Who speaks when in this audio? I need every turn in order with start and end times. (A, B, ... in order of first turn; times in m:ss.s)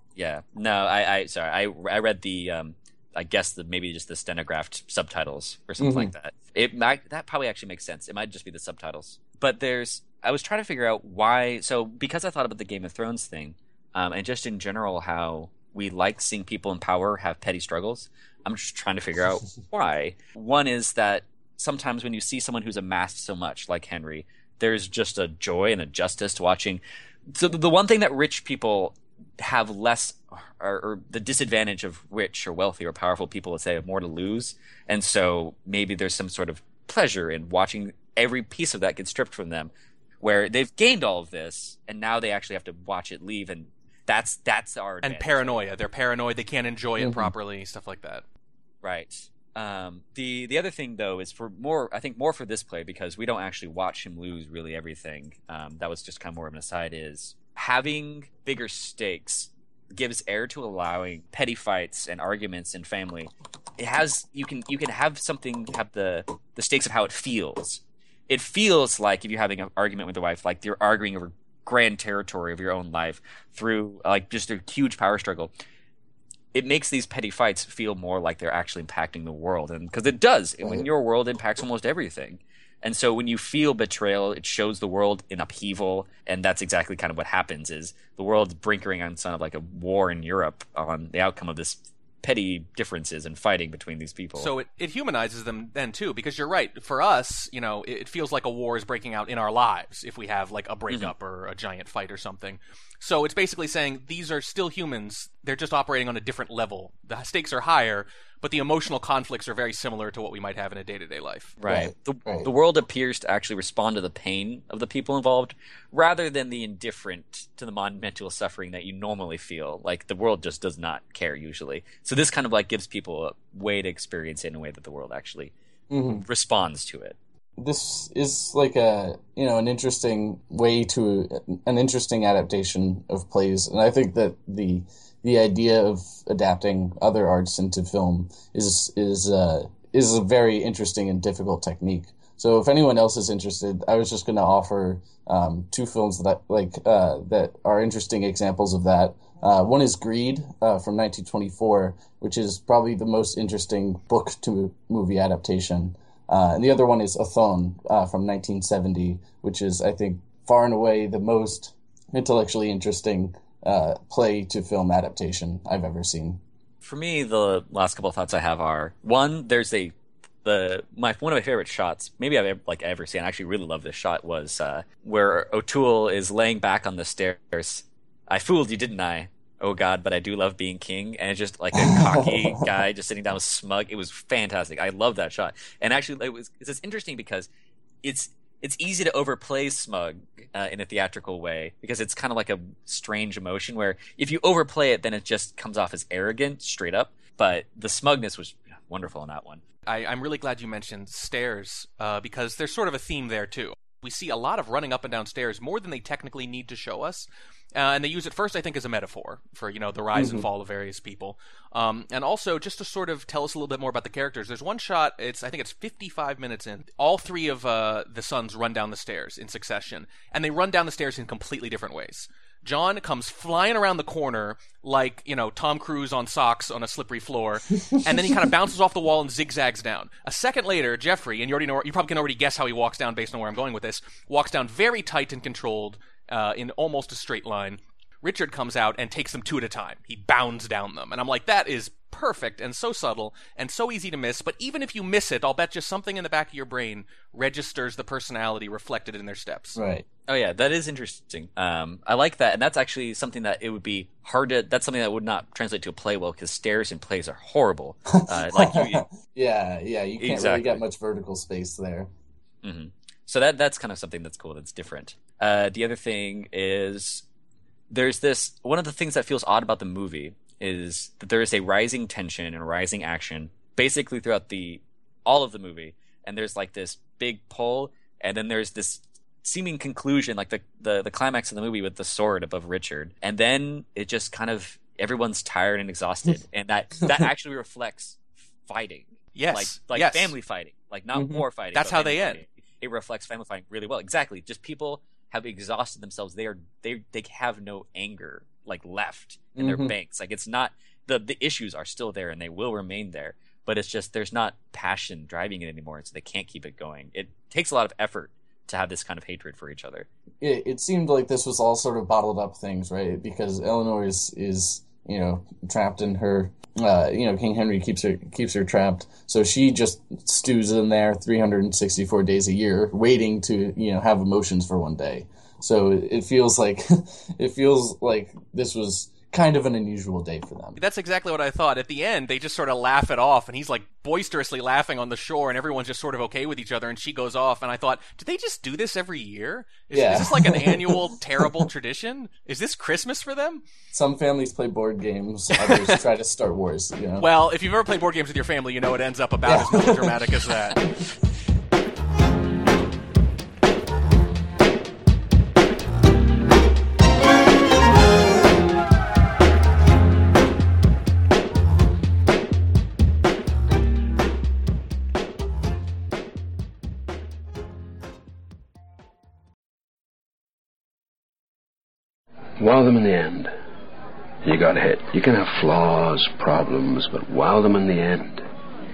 0:00.2-0:45.6 A
0:05.8-0:06.1 B
0:45.0-0:48.2 C
0:47.0-0:47.3 B
0:48.8-1:15.5 A
1:16.5-1:34.5 A
1:34.4-1:51.6 C
1:51.6-2:05.5 A
1:51.7-1:52.5 B
2:05.9-2:06.2 B
2:06.1-2:07.2 A
2:07.6-2:46.4 B
2:46.8-2:49.9 A
2:50.4-3:07.5 A
3:01.7-3:02.6 B
3:08.0-3:19.6 A
3:19.9-4:09.8 C
3:30.2-3:30.5 B
4:09.7-4:10.0 B
4:10.3-4:19.0 A
4:18.1-4:22.1 B
4:20.2-4:20.8 A
4:22.6-4:27.2 A
4:27.9-5:10.1 A
4:49.3-4:50.3 C
4:51.1-4:51.4 B
4:51.7-4:52.4 C
4:59.6-4:59.9 B
5:10.4-5:30.8 B
5:30.8-5:43.6 C
5:39.9-5:41.5 B
5:43.9-5:47.3 B
5:45.6-5:46.0 C
5:47.2-5:50.8 C
5:49.4-5:50.4 B
6:12.6-6:13.5 D
6:14.4-6:18.4 D